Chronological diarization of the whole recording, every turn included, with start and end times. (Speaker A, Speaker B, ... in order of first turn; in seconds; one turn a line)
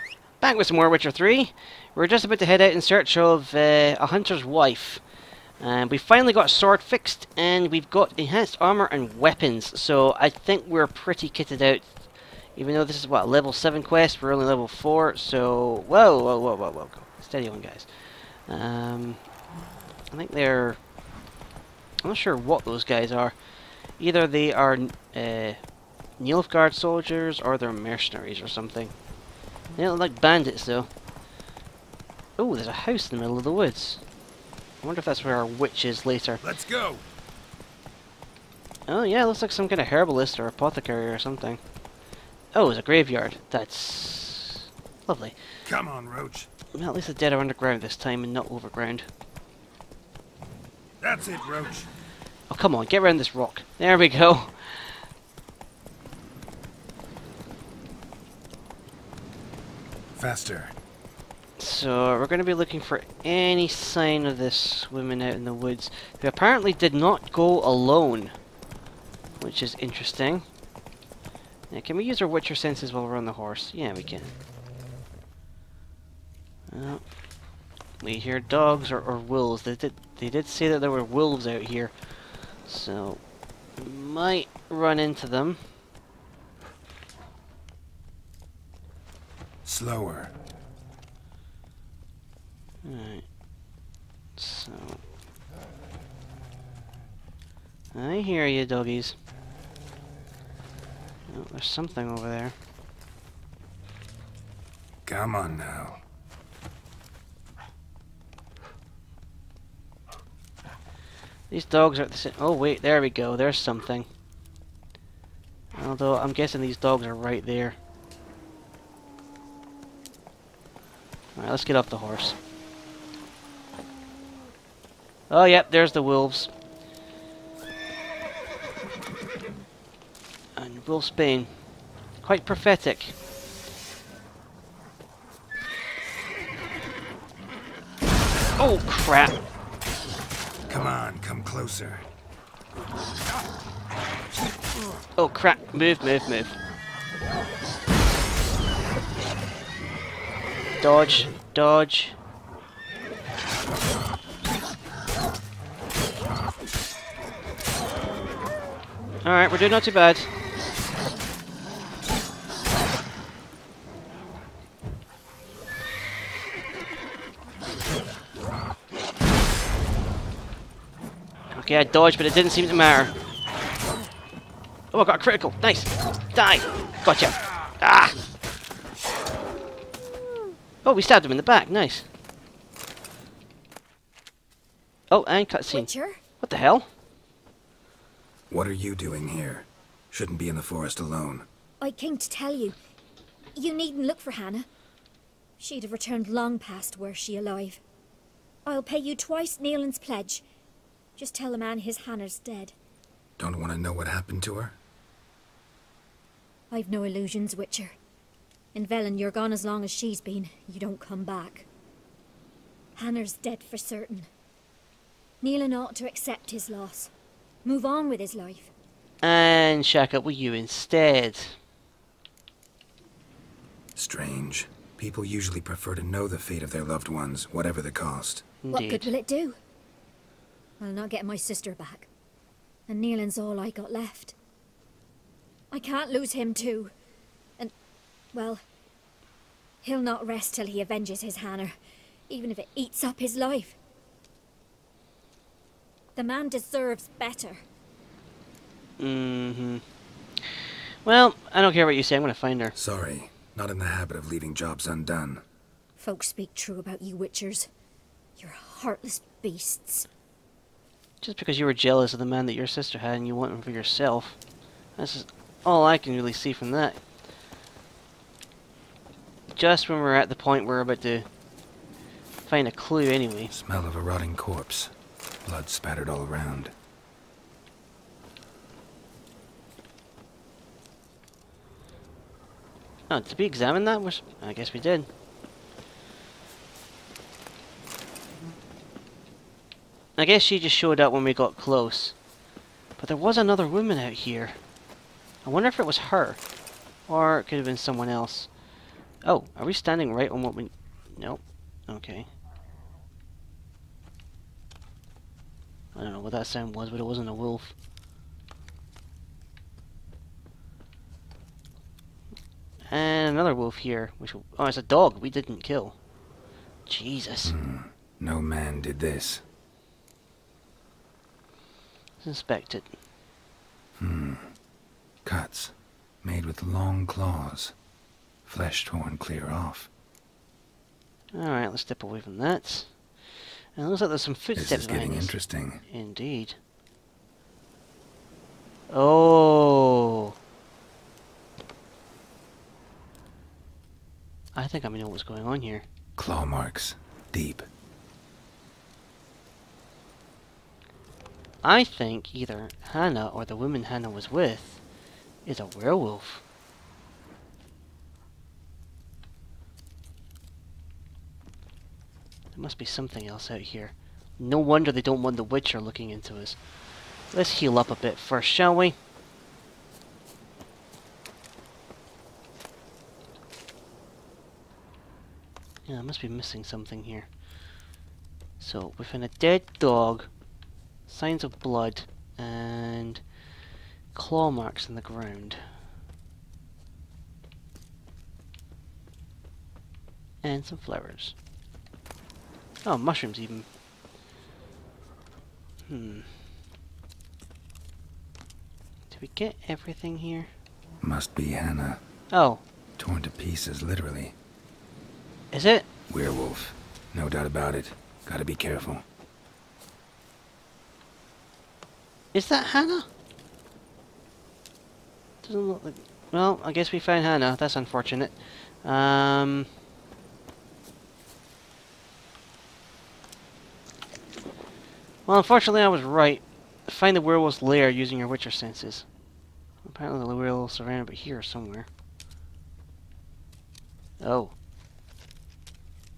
Speaker A: 0.4-5.0
Speaker A: 5.6-12.0
Speaker A: 12.6-19.2
Speaker A: 20.1-20.8
Speaker A: 22.0-23.4
Speaker A: 24.0-25.6
Speaker A: 26.2-28.9
Speaker A: 29.8-30.9
Speaker A: 32.4-34.0
Speaker A: 34.8-36.4
Speaker B: 36.4-37.0
Speaker A: 38.9-41.6
Speaker A: 42.5-45.4
Speaker B: 45.6-46.5
Speaker A: 46.7-49.1
Speaker B: 51.0-51.9
Speaker A: 52.5-55.0
Speaker B: 60.1-60.7
Speaker A: 61.6-68.3
Speaker A: 69.4-70.5
Speaker A: 71.7-74.3
Speaker A: 76.7-77.0
Speaker A: 78.0-81.9
Speaker A: 82.6-83.2
Speaker A: 83.8-85.6
Speaker B: 89.6-90.3
Speaker A: 92.8-93.3
Speaker A: 94.3-95.0
Speaker A: 97.9-99.2
Speaker A: 101.3-102.5
Speaker B: 105.0-106.0
Speaker A: 111.5-114.1
Speaker A: 115.7-117.8
Speaker A: 121.3-122.4
Speaker A: 125.3-126.5
Speaker A: 130.6-131.5
Speaker A: 132.2-133.1
Speaker A: 138.6-139.4
Speaker B: 140.7-142.1
Speaker A: 145.2-146.6
Speaker A: 150.8-152.2
Speaker A: 159.2-160.3
Speaker A: 171.5-173.1
Speaker A: 174.9-178.1
Speaker A: 180.8-182.1
Speaker A: 185.1-186.9
Speaker C: 185.7-186.2
Speaker B: 188.5-191.4
Speaker C: 191.8-192.8
Speaker C: 193.5-194.7
Speaker C: 195.6-197.8
Speaker C: 198.7-200.4
Speaker C: 201.2-202.7
Speaker B: 203.4-204.8
Speaker C: 206.7-207.9
Speaker C: 208.7-211.7
Speaker C: 212.9-214.3
Speaker C: 215.4-217.1
Speaker C: 217.6-218.7
Speaker A: 219.2-221.6
Speaker B: 223.9-228.4
Speaker A: 228.6-229.1
Speaker C: 228.7-229.6
Speaker C: 230.8-232.1
Speaker C: 232.9-234.3
Speaker C: 235.7-236.9
Speaker C: 238.3-238.6
Speaker C: 239.8-241.7
Speaker C: 242.3-243.8
Speaker C: 246.2-247.6
Speaker A: 249.0-249.8
Speaker A: 250.4-252.8
Speaker B: 252.7-255.4
Speaker C: 256.0-257.7
Speaker C: 258.4-260.1
Speaker A: 261.2-264.4
Speaker A: 265.0-267.0
Speaker A: 269.6-271.2
Speaker A: 272.4-273.5
Speaker B: 273.5-274.9
Speaker B: 275.4-276.7
Speaker A: 283.1-285.1
Speaker A: 290.2-292.1
Speaker A: 293.0-294.6
Speaker A: 295.4-296.4
Speaker A: 297.1-298.5
Speaker A: 299.2-302.3
Speaker A: 305.9-307.7
Speaker A: 312.9-315.9
Speaker A: 316.9-317.5
Speaker B: 317.4-319.4
Speaker A: 322.2-322.9
Speaker B: 324.0-324.5
Speaker B: 325.2-327.7
Speaker B: 328.4-329.9
Speaker A: 331.3-332.9
Speaker A: 333.7-336.6
Speaker B: 334.5-335.8
Speaker A: 338.9-340.3
Speaker A: 344.5-345.8
Speaker B: 346.2-347.7
Speaker A: 351.6-354.8
Speaker A: 355.4-356.4
Speaker A: 362.5-366.6
Speaker A: 367.3-368.9
Speaker A: 375.9-377.3
Speaker A: 378.6-380.3
Speaker A: 381.1-383.2
Speaker A: 384.1-385.6
Speaker A: 390.4-391.3
Speaker A: 392.8-393.7
Speaker A: 395.9-396.3
Speaker A: 399.1-400.5
Speaker B: 401.0-402.0
Speaker A: 402.3-402.6
Speaker B: 403.0-404.3
Speaker A: 405.5-405.9
Speaker B: 406.1-409.0
Speaker A: 412.3-413.1
Speaker A: 415.4-419.7
Speaker A: 425.2-429.1
Speaker A: 429.8-431.9
Speaker A: 434.2-434.5